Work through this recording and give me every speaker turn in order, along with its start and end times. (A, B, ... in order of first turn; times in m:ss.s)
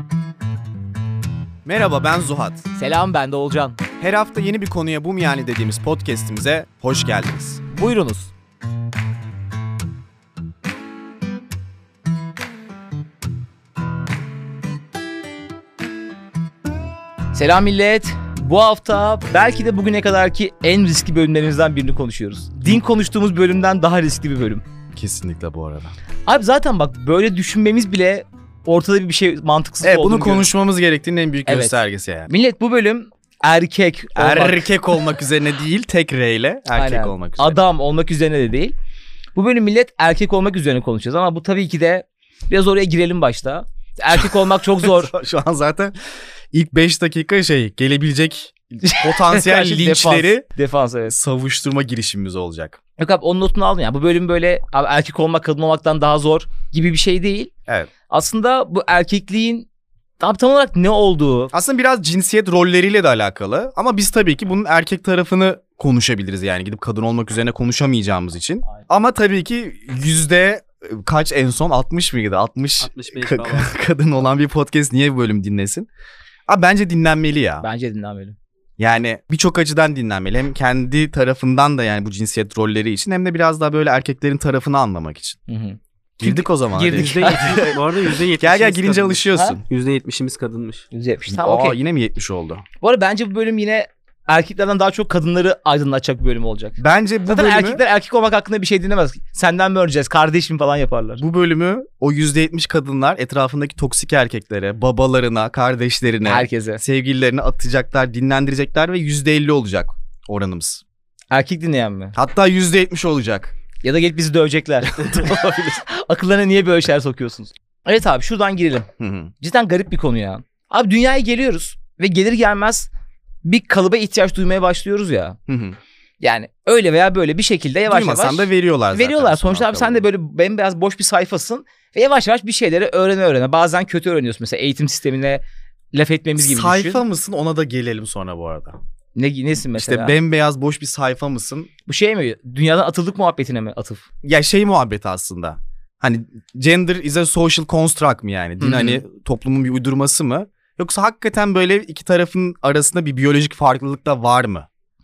0:01.6-0:02.7 A
0:02.8-0:03.8 B
0:04.0-0:07.6 A
0:07.7-0:08.3 B
0:17.3-0:24.6 B
0:24.9-0:25.9 A
0:26.3-0:30.5 B
0:29.8-0:32.3 A
0:31.5-0:31.8 B
0:32.3-0:34.7 B
0:34.2-0:37.6 A
0:36.7-0:38.7 B
0:39.4-0:45.1 B
0:44.8-0:45.9 A
0:46.5-0:50.4 A
0:48.8-0:51.1 B
0:51.1-0:52.8 A
0:53.0-0:57.5 B
0:58.1-0:59.7 B
1:00.2-1:01.5 B
1:01.5-1:15.9 A
1:12.8-1:13.7 C
1:16.5-1:17.7 A
1:17.6-1:18.4 B
1:18.8-1:25.4 A
1:25.5-1:27.7 B
1:26.2-1:27.8 A
1:26.9-1:30.8 C
1:28.4-1:29.6 A
1:30.9-1:31.8 B
1:31.3-1:32.6 A
1:32.8-1:36.8 B
1:36.8-1:37.8 A
1:37.3-1:41.2 B
1:41.2-1:50.8 A
1:46.2-1:46.8 B
1:51.3-1:52.1 B
1:52.1-1:53.5 A
1:53.8-1:58.9 B
1:54.9-1:55.8 A
1:59.0-1:59.3 A
1:59.4-2:02.9 B
2:03.4-2:05.4 B
2:05.5-2:05.8 A
2:06.2-2:15.4 B
2:07.9-2:10.0 A
2:15.9-2:17.0 B
2:16.4-2:18.8 A
2:19.2-2:20.1 B
2:19.7-2:21.7 A
2:21.9-2:24.0 B
2:24.2-2:34.7 A
2:28.6-2:29.0 B